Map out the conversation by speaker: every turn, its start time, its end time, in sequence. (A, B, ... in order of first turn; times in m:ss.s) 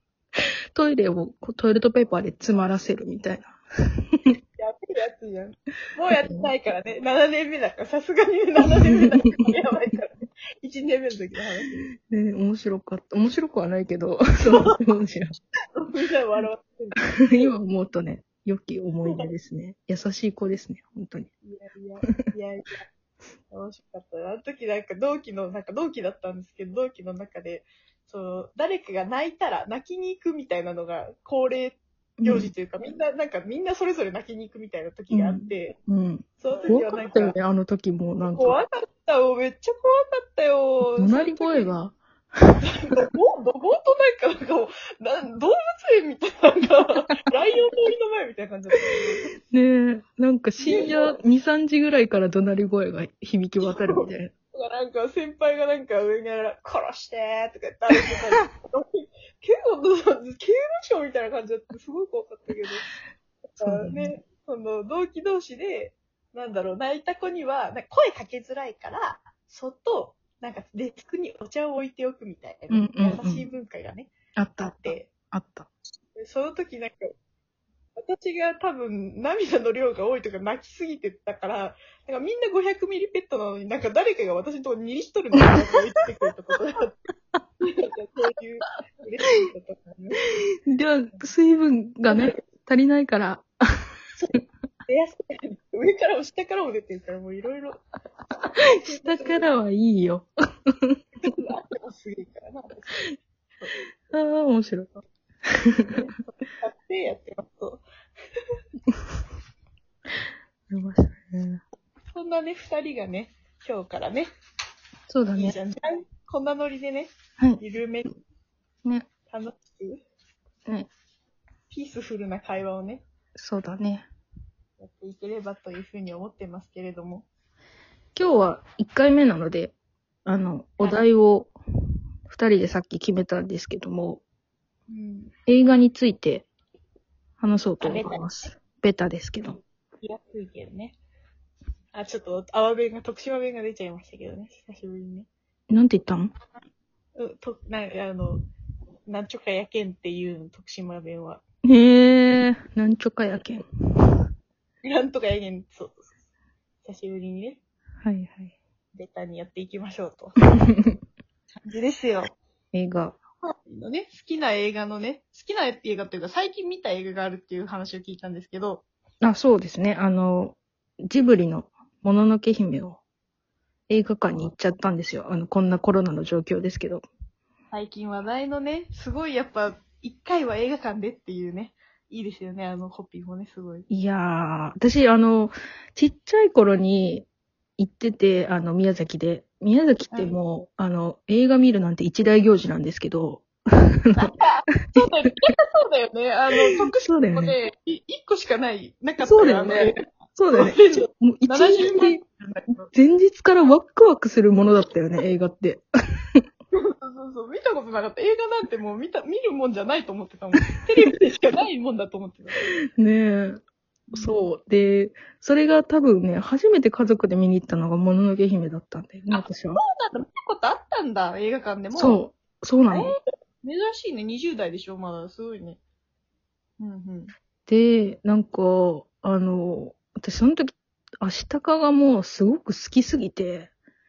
0:00.7-0:03.6 A
0:04.6-0:11.9 B
0:06.2-0:06.5 A
0:12.0-0:15.3 A
0:14.5-0:14.8 B
0:15.8-0:17.5 B
0:17.0-0:21.3 A
0:21.4-0:22.8 B
0:23.5-0:35.8 B
0:32.2-0:32.5 A
0:35.1-0:38.6 A
0:36.4-0:37.4 B
0:38.3-0:41.7 B
0:41.0-0:43.0 A
0:42.6-0:49.3 B
0:49.5-0:54.3 A
0:50.6-0:51.2 B
0:53.6-1:02.9 B
1:03.6-1:14.1 B
1:03.6-1:04.1 A
1:12.7-1:13.5 A
1:14.4-1:15.7 A
1:14.8-1:15.1 B
1:16.2-1:17.1 B
1:18.0-1:27.0 B
1:27.7-1:30.2 B
1:30.7-1:33.9 A
1:34.2-1:37.8 B
1:38.6-1:41.0 A
1:38.9-1:39.5 B
1:41.2-1:43.0 B
1:44.1-1:44.9 A
1:45.5-1:45.9 A
1:45.9-1:47.8 B
1:50.7-1:51.6 A
1:52.1-1:54.3 B
1:55.1-1:55.6 A
1:55.3-1:58.2 B
1:59.3-2:00.0 B
2:01.7-2:03.0 B
2:03.4-2:04.1 A
2:04.8-2:07.3 B
2:08.2-2:09.8 A
2:10.3-2:11.5 A
2:12.3-2:14.2 A
2:14.9-2:15.3 B
2:15.5-2:16.5 A
2:17.4-2:19.6 A
2:17.8-2:18.2 B
2:20.0-2:21.0 B
2:21.9-2:25.3 B
2:25.7-2:26.3 A
2:27.2-2:28.4 B
2:29.1-2:31.4 B
2:31.6-2:34.1 A
2:34.8-2:36.1 B
2:36.8-2:37.6 B
2:38.0-2:38.6 A
2:39.0-2:40.4 B
2:41.6-2:42.4 B
2:42.7-2:43.2 A
2:43.5-2:48.8 B
2:49.2-2:53.0 A
2:53.9-2:57.1 A
2:57.7-3:03.9 B
3:03.9-3:07.3 A
3:07.8-3:14.3 A
3:14.2-3:20.0 B
3:17.0-3:17.6 A
3:19.2-3:22.2 A
3:20.5-3:22.9 B
3:22.9-3:25.8 A
3:26.7-3:32.6 B
3:32.7-3:33.6 A
3:34.1-3:34.5 B
3:34.1-3:39.8 A
3:39.3-3:42.2 B
3:42.0-3:43.1 A
3:42.9-3:45.8 B
3:46.8-3:47.3 B
3:47.7-3:53.7 A